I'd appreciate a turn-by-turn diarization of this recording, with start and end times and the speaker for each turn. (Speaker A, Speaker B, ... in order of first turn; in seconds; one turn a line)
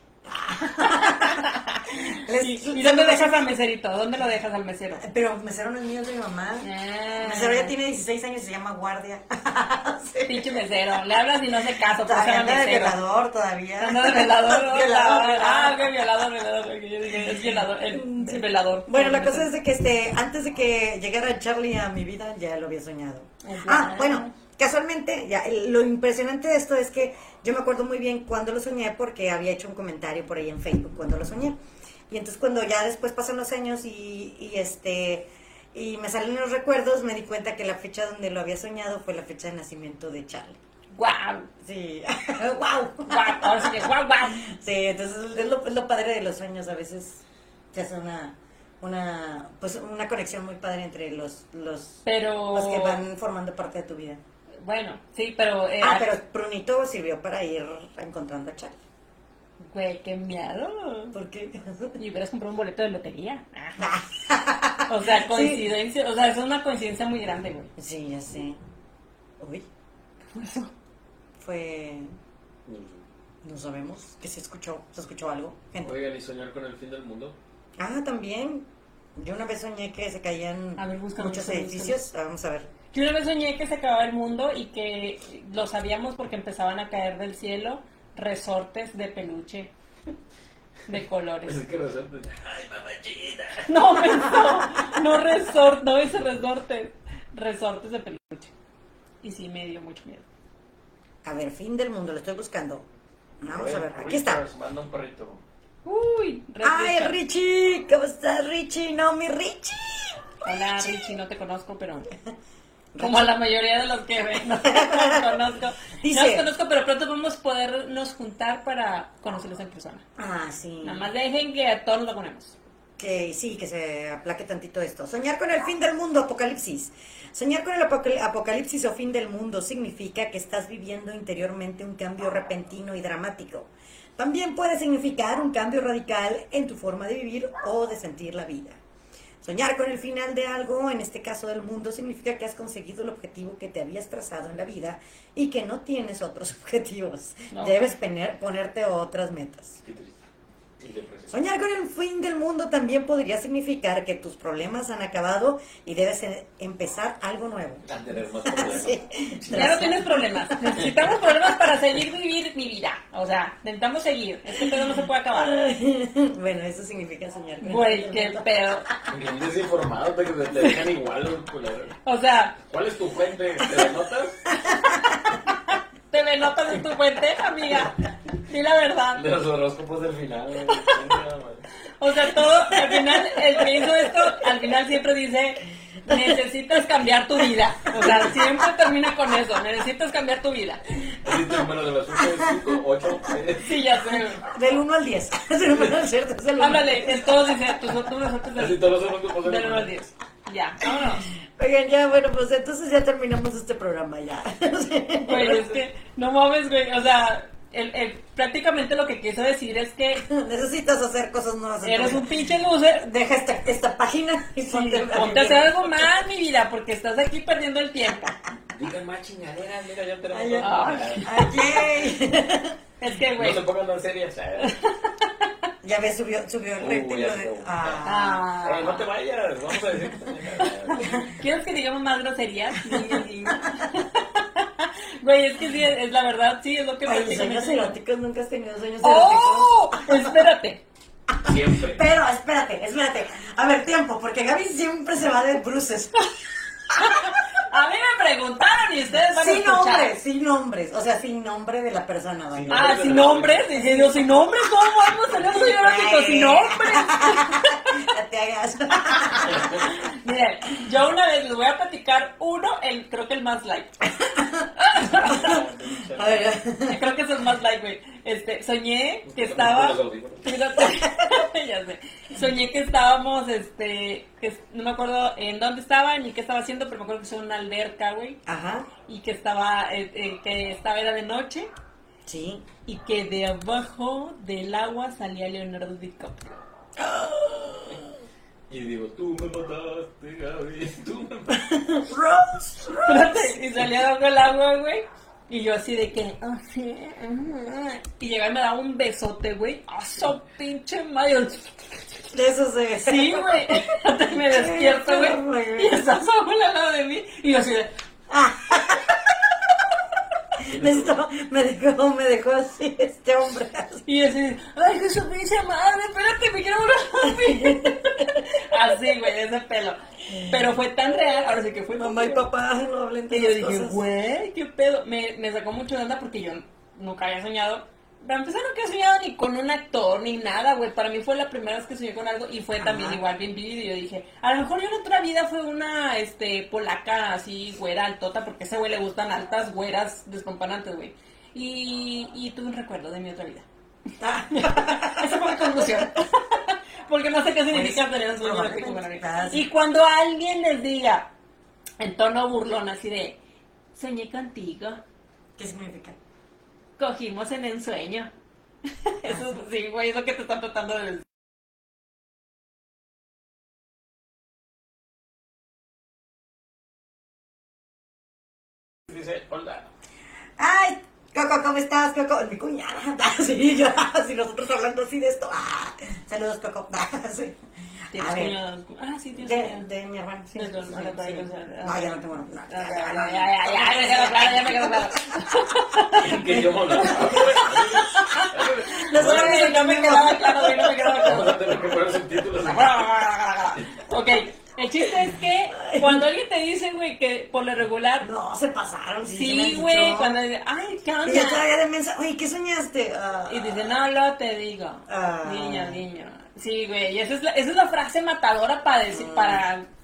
Speaker A: 0.2-3.5
Speaker B: 0.6-5.0
Speaker A: 4.9-6.7
Speaker B: 6.6-7.7
Speaker A: 7.2-10.5
Speaker B: 10.2-13.0
Speaker A: 12.0-16.2
Speaker B: 13.8-19.5
Speaker A: 17.1-31.6
Speaker B: 23.4-24.3
Speaker A: 32.1-40.6
Speaker B: 40.9-41.5
Speaker A: 41.6-54.2
Speaker B: 43.1-44.4
Speaker B: 52.0-53.0
Speaker B: 54.6-56.1
Speaker A: 55.8-58.8
Speaker B: 59.6-61.2
Speaker A: 61.1-62.0
Speaker B: 62.0-63.9
Speaker A: 63.8-65.7
Speaker B: 64.9-67.7
Speaker A: 67.8-68.6
Speaker A: 69.4-69.7
Speaker B: 70.3-70.7
Speaker A: 71.4-72.1
Speaker C: 72.7-73.0
Speaker A: 73.4-75.9
Speaker C: 75.8-77.4
Speaker A: 77.8-82.7
Speaker B: 80.8-82.0
Speaker B: 82.9-89.7
Speaker B: 90.9-91.6
Speaker C: 91.5-93.7
Speaker B: 93.7-98.5
Speaker A: 94.1-94.8
Speaker B: 99.2-100.2
Speaker A: 101.2-102.8
Speaker A: 103.4-104.4
Speaker C: 103.5-105.4
Speaker B: 105.8-107.2
Speaker A: 106.6-110.2
Speaker B: 110.4-112.1
Speaker A: 112.9-113.3
Speaker B: 113.0-120.0
Speaker A: 114.6-115.4
Speaker A: 116.0-116.5
Speaker A: 120.2-121.0
Speaker B: 120.8-122.5
Speaker A: 123.0-138.8
Speaker A: 139.4-149.8
Speaker B: 147.5-147.9
Speaker C: 149.8-150.2
Speaker C: 150.8-151.3
Speaker A: 151.3-157.9
Speaker C: 157.8-160.0
Speaker A: 158.4-160.3
Speaker B: 159.5-165.6
Speaker C: 160.8-161.2
Speaker A: 165.3-168.5
Speaker B: 167.6-168.9
Speaker C: 169.1-171.9
Speaker B: 172.0-172.6
Speaker C: 172.6-174.5
Speaker A: 174.5-175.4
Speaker B: 175.7-179.2
Speaker C: 179.1-181.6
Speaker B: 182.0-190.8
Speaker A: 182.8-183.6
Speaker A: 186.1-186.3
Speaker A: 187.9-188.4
Speaker C: 191.2-193.8
Speaker A: 192.2-192.7
Speaker B: 193.6-194.4
Speaker A: 194.4-197.9
Speaker B: 196.6-198.8
Speaker C: 198.6-200.0
Speaker B: 199.4-201.3
Speaker A: 200.8-205.8
Speaker B: 205.2-210.2
Speaker A: 210.2-212.3
Speaker B: 211.8-213.1
Speaker A: 213.0-216.1
Speaker B: 214.7-218.3
Speaker C: 218.7-221.3
Speaker A: 220.3-222.8
Speaker B: 220.6-221.8
Speaker B: 223.0-223.6
Speaker C: 223.3-224.8
Speaker B: 224.6-225.5
Speaker A: 225.8-228.4
Speaker C: 226.8-228.1
Speaker B: 228.0-229.0
Speaker C: 228.6-231.3
Speaker A: 231.0-231.3
Speaker B: 231.1-237.9
Speaker A: 232.9-233.8
Speaker A: 237.0-240.4
Speaker B: 239.0-240.8
Speaker A: 241.3-246.3
Speaker C: 241.4-242.1
Speaker A: 246.9-247.5
Speaker B: 246.9-250.2
Speaker A: 249.3-254.2
Speaker C: 252.5-253.7
Speaker B: 252.7-258.1
Speaker A: 255.4-259.8
Speaker C: 259.4-259.9
Speaker B: 259.8-264.0
Speaker A: 264.2-264.7
Speaker B: 264.8-265.6
Speaker C: 265.0-266.6
Speaker A: 265.2-267.1
Speaker B: 266.9-278.4
Speaker C: 269.3-270.5
Speaker A: 278.4-278.9
Speaker B: 279.1-281.7
Speaker A: 282.2-282.6
Speaker B: 282.9-286.6
Speaker A: 287.0-288.1
Speaker C: 288.7-292.0
Speaker A: 291.7-293.5
Speaker B: 293.0-302.2
Speaker A: 302.3-303.7
Speaker B: 303.0-307.9
Speaker A: 304.3-306.0
Speaker A: 308.3-310.0
Speaker A: 310.6-314.0
Speaker C: 310.6-311.2
Speaker B: 314.1-322.5
Speaker A: 317.2-318.6
Speaker A: 320.3-320.7
Speaker A: 321.9-324.0
Speaker B: 323.3-343.6
Speaker A: 332.8-333.2
Speaker A: 344.2-346.1
Speaker B: 344.5-351.3
Speaker A: 347.7-349.7
Speaker B: 352.0-353.4
Speaker B: 353.9-355.0
Speaker A: 355.6-356.2
Speaker B: 357.0-358.3
Speaker B: 359.0-361.2
Speaker A: 359.2-359.6
Speaker C: 369.1-369.9
Speaker A: 370.6-377.6
Speaker A: 378.1-378.6
Speaker B: 378.1-379.9
Speaker A: 379.4-385.4
Speaker B: 380.5-386.4
Speaker C: 386.1-389.6
Speaker A: 386.4-388.5
Speaker B: 387.0-391.7
Speaker A: 389.1-391.4
Speaker C: 391.2-393.1
Speaker B: 392.6-398.3
Speaker A: 395.8-396.3
Speaker A: 398.2-400.4
Speaker B: 399.3-401.6
Speaker A: 401.2-403.9
Speaker B: 403.5-409.9
Speaker A: 405.1-406.0
Speaker A: 409.1-409.6